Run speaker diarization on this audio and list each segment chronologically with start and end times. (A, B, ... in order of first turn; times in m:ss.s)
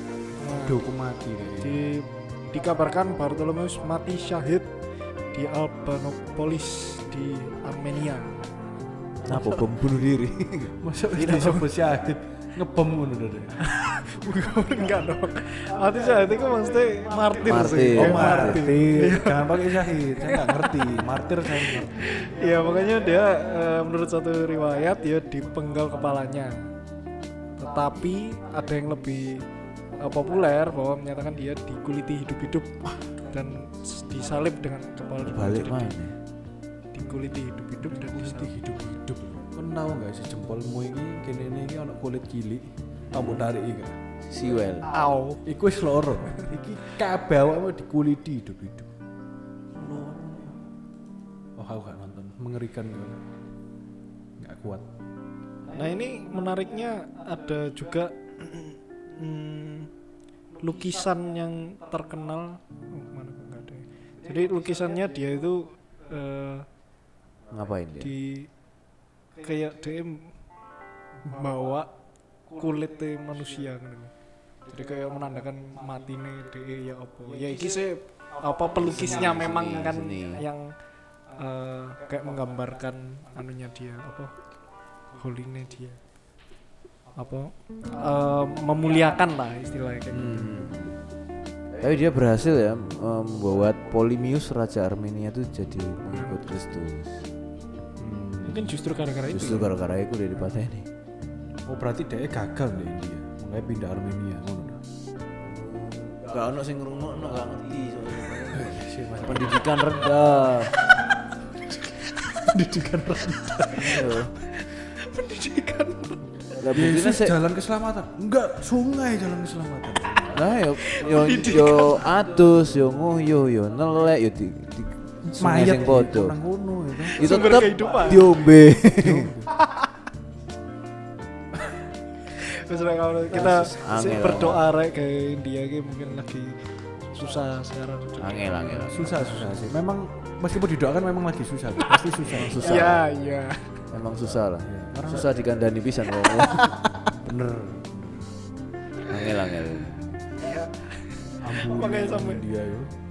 0:00.4-0:00.8 A
0:00.6-0:01.9 B
0:01.6-0:04.7 A
0:05.3-0:08.5 A
0:09.2-0:11.5 C
0:09.3-0:09.6 A
0:10.8-0:13.6 B
0:11.2-0:11.7 A
0:13.6-0:20.8 A
0:17.4-0:18.7 C
0:17.9-0:22.3 B
0:21.5-0:26.7 A
0:27.6-0:29.4 A
0:30.0-0:36.0 A
0:35.2-0:36.2 C
0:36.9-0:39.0 A
0:37.8-0:44.0 B
0:43.1-0:43.5 C
0:44.2-0:44.9 C
0:44.9-0:45.4 A
0:45.4-0:48.9 B
0:49.8-0:50.5 A
0:51.6-0:53.2 B
0:54.4-0:54.9 B
0:55.7-0:59.9 A
1:00.6-1:06.7 A
1:07.5-1:08.1 C
1:08.0-1:08.5 A
1:09.4-1:10.4 A
1:11.2-1:11.9 A
1:12.5-1:14.1 A
1:14.7-1:20.7 A
1:18.8-1:20.4 C
1:21.3-1:24.4 A
1:25.1-1:26.0 A
1:27.2-1:30.5 A
1:30.1-1:31.0 C
1:31.8-1:37.3 C
1:36.1-1:36.5 A
1:38.0-1:38.7 B
1:38.4-1:39.8 A
1:39.3-1:40.9 C
1:41.7-1:44.8 B
1:45.4-1:50.8 C
1:48.5-1:49.6 B
1:52.3-1:54.1 B
1:53.7-1:54.3 C
1:54.4-1:56.6 A
1:56.6-1:57.4 C
1:56.7-2:00.4 B
2:00.3-2:06.4 C
2:00.8-2:02.0 A
2:05.2-2:07.4 B
2:07.1-2:08.4 A
2:07.2-2:09.3 C
2:09.0-2:09.5 B
2:12.3-2:19.7 A
2:13.3-2:14.6 C
2:18.2-2:19.6 C
2:18.6-2:23.0 B
2:22.2-2:23.0 C
2:22.5-2:23.8 A
2:23.9-2:26.8 C
2:24.6-2:25.4 B
2:27.0-2:28.3 B
2:29.1-2:30.1 C
2:30.4-2:32.5 A
2:31.4-2:32.9 B